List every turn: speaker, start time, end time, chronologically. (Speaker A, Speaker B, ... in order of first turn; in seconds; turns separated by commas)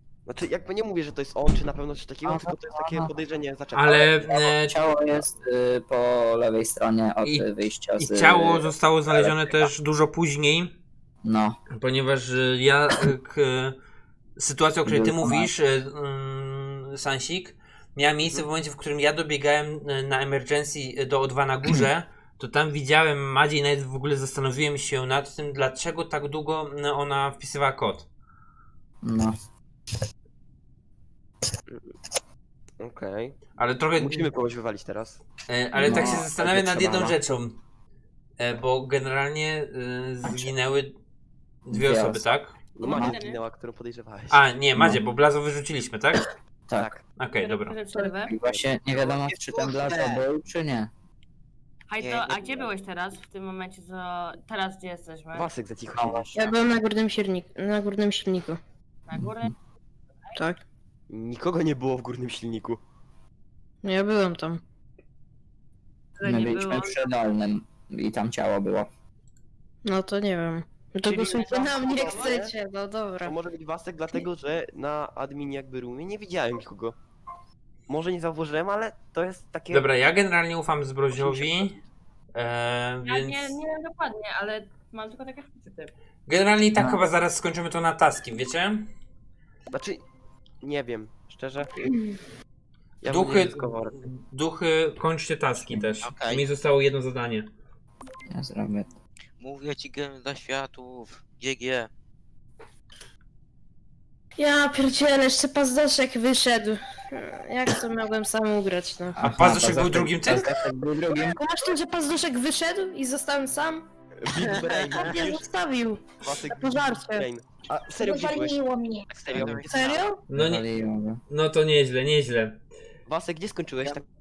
Speaker A: 0.2-4.5, Speaker B: 2.2-3.1, Speaker C: 3.7-4.8, Speaker B: 4.6-9.7, Speaker C: 8.0-10.8, Speaker B: 11.2-11.6, Speaker C: 11.7-13.8, Speaker C: 14.4-28.1, Speaker B: 14.8-15.5, Speaker B: 29.0-29.3, Speaker A: 32.8-33.4, Speaker C: 33.6-34.3, Speaker A: 34.0-35.2, Speaker C: 35.5-37.6, Speaker B: 35.8-36.3, Speaker A: 35.9-37.1, Speaker C: 38.4-40.9, Speaker C: 41.6-43.0, Speaker B: 41.7-42.2, Speaker A: 42.8-44.4, Speaker D: 42.8-43.4, Speaker C: 44.3-46.2, Speaker B: 44.8-45.0, Speaker A: 46.7-47.0, Speaker C: 47.2-47.8, Speaker D: 47.4-48.4, Speaker B: 48.2-50.9, Speaker E: 48.9-50.2, Speaker D: 51.9-55.5, Speaker E: 52.0-52.7, Speaker A: 55.3-56.3, Speaker B: 55.9-56.6, Speaker F: 56.3-58.6, Speaker D: 59.1-59.5, Speaker B: 59.1-59.5, Speaker D: 60.2-60.5, Speaker A: 61.1-62.8, Speaker F: 63.8-64.6, Speaker D: 66.2-66.9, Speaker B: 66.2-68.9, Speaker F: 69.8-73.3, Speaker D: 71.0-72.4, Speaker A: 71.1-72.5, Speaker A: 73.2-76.9, Speaker A: 77.9-79.8, Speaker C: 79.7-81.8, Speaker A: 81.1-81.8, Speaker C: 82.3-83.6, Speaker D: 83.0-85.9, Speaker C: 86.3-88.9, Speaker B: 86.8-87.0, Speaker A: 89.7-90.0, Speaker A: 90.6-91.9, Speaker A: 93.0-94.0, Speaker C: 93.1-97.5, Speaker B: 95.6-95.8, Speaker E: 96.0-96.4, Speaker B: 98.3-98.9, Speaker E: 99.4-101.9, Speaker F: 104.4-109.2, Speaker B: 109.2-111.4, Speaker C: 109.2-110.5, Speaker F: 111.1-113.8, Speaker A: 114.2-115.5, Speaker F: 115.1-117.3, Speaker A: 116.2-120.0, Speaker F: 118.0-119.0, Speaker E: 119.3-120.0, Speaker F: 119.6-120.2, Speaker C: 120.3-120.7, Speaker B: 120.3-121.2, Speaker C: 121.3-122.6, Speaker A: 123.0-124.0